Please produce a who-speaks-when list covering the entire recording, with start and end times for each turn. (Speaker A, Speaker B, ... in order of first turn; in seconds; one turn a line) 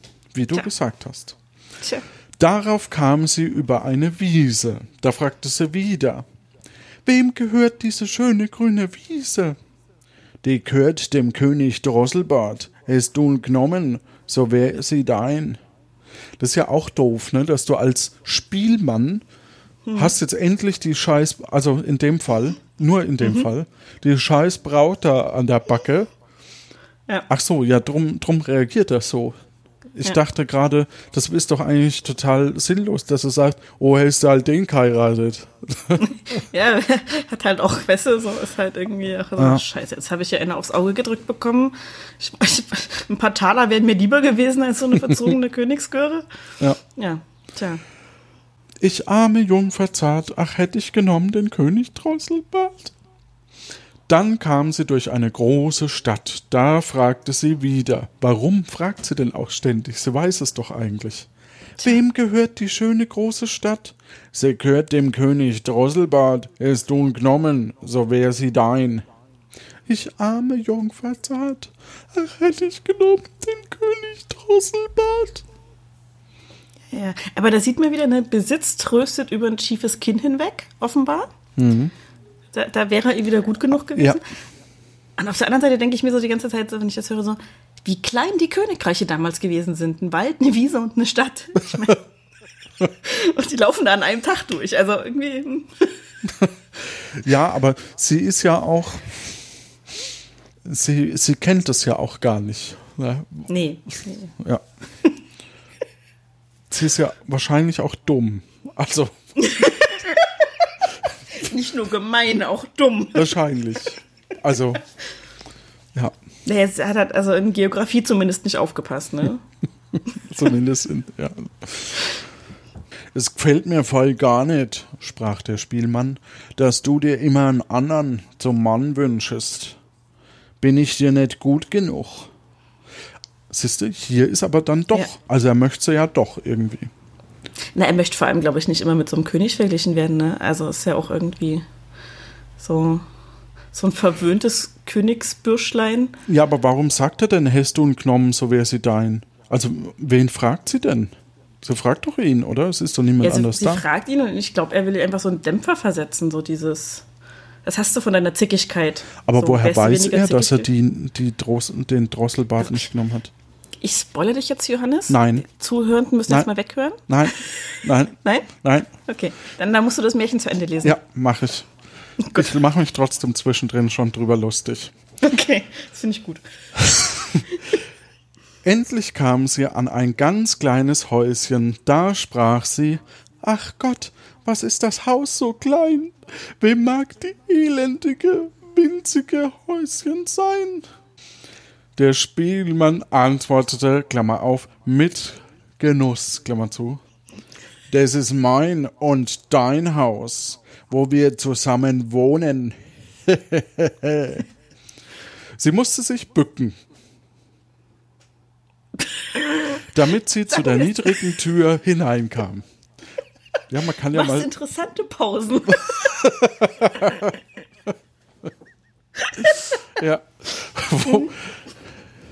Speaker A: 0.3-1.4
Speaker A: 2.4-6.2
Speaker A: 7.0-9.6
Speaker A: 10.4-15.6
Speaker A: 16.4-19.2
Speaker B: 19.8-20.1
Speaker A: 19.9-26.1
Speaker B: 23.2-23.5
Speaker A: 27.3-29.4
Speaker A: 29.9-36.1
Speaker B: 36.0-46.2
Speaker A: 39.4-39.6
Speaker B: 46.8-47.8
Speaker A: 48.8-52.9
Speaker A: 54.1-61.3
Speaker A: 61.8-69.0
Speaker A: 69.9-75.4
Speaker B: 76.9-81.3
Speaker A: 81.6-81.9
Speaker B: 82.5-84.2
Speaker B: 85.2-92.0
Speaker B: 93.0-96.0
Speaker A: 96.4-99.3
Speaker A: 100.6-103.5
Speaker B: 103.5-104.3
Speaker A: 106.7-109.2
Speaker B: 109.4-110.6
Speaker B: 111.3-113.4
Speaker A: 113.1-114.8
Speaker B: 116.4-119.4
Speaker A: 120.1-122.0
Speaker A: 123.1-129.8
Speaker A: 130.6-132.3
Speaker A: 133.5-136.9
Speaker B: 137.7-141.6
Speaker B: 142.6-143.0
Speaker B: 143.7-146.2
Speaker A: 146.3-153.8
Speaker B: 153.2-157.1
Speaker B: 157.6-160.7
Speaker A: 159.2-163.3
Speaker B: 163.8-167.6
Speaker A: 165.1-165.4
Speaker A: 167.1-168.9
Speaker B: 168.2-168.5
Speaker B: 169.0-171.0
Speaker A: 170.8-171.7
Speaker A: 172.3-174.9
Speaker B: 175.2-176.4
Speaker A: 176.8-177.4
Speaker A: 178.6-190.9
Speaker A: 191.9-197.0
Speaker A: 197.9-204.4
Speaker A: 205.6-206.8
Speaker A: 209.9-212.6
Speaker A: 213.7-214.5
Speaker B: 214.1-216.1
Speaker A: 215.9-217.4
Speaker B: 219.3-219.8
Speaker A: 219.9-221.6